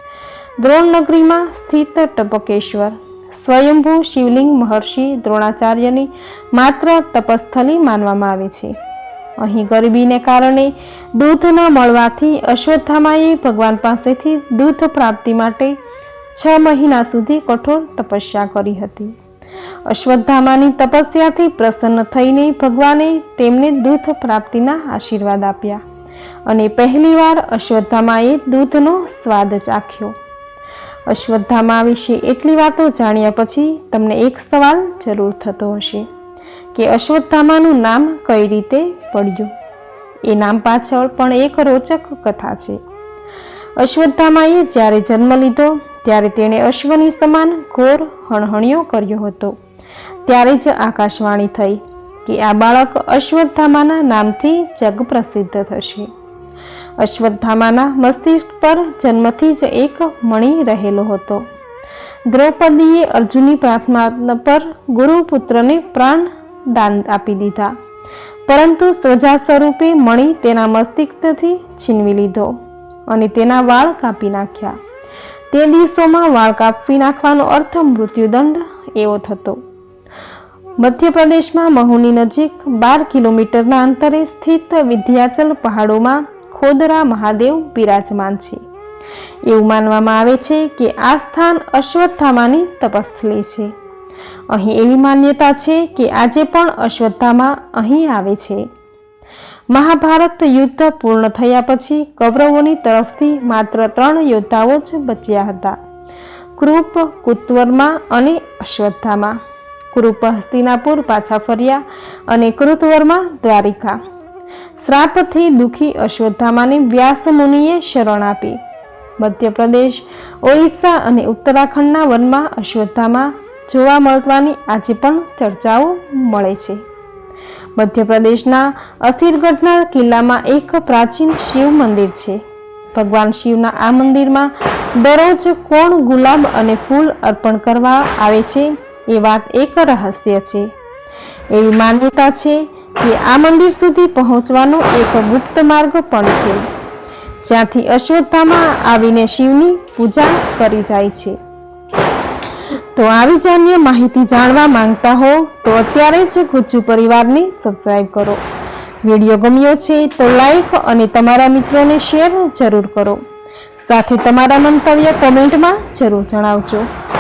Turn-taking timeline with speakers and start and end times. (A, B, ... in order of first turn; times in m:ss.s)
0:00.6-0:08.8 A
0:09.4-0:15.8 A
0:16.3-0:19.2 A
0:19.8-0:25.8 A
0:26.4-0:30.2 A
0:31.1-0:36.1 A
0:36.7-0:39.5 A
0:40.2-0:42.8 A
0:43.8-0:49.6 A
0:50.3-0:56.1 A
0:57.0-1:01.5 A
1:02.3-1:07.8 A
1:08.5-1:14.8 A
1:15.5-1:19.6 A
1:20.8-1:28.6 A
1:29.4-1:33.7 A
1:34.5-1:38.7 A
1:39.7-1:45.8 A
1:46.6-1:49.4 A
1:49.9-1:54.0 A
1:54.8-1:58.6 A
1:59.2-2:06.8 A
2:07.8-2:12.4 A
2:12.9-2:20.7 A
2:21.5-2:26.6 A
2:27.4-2:31.4 A
2:32.9-2:38.4 A
2:39.0-2:43.2 A
2:43.8-2:46.9 A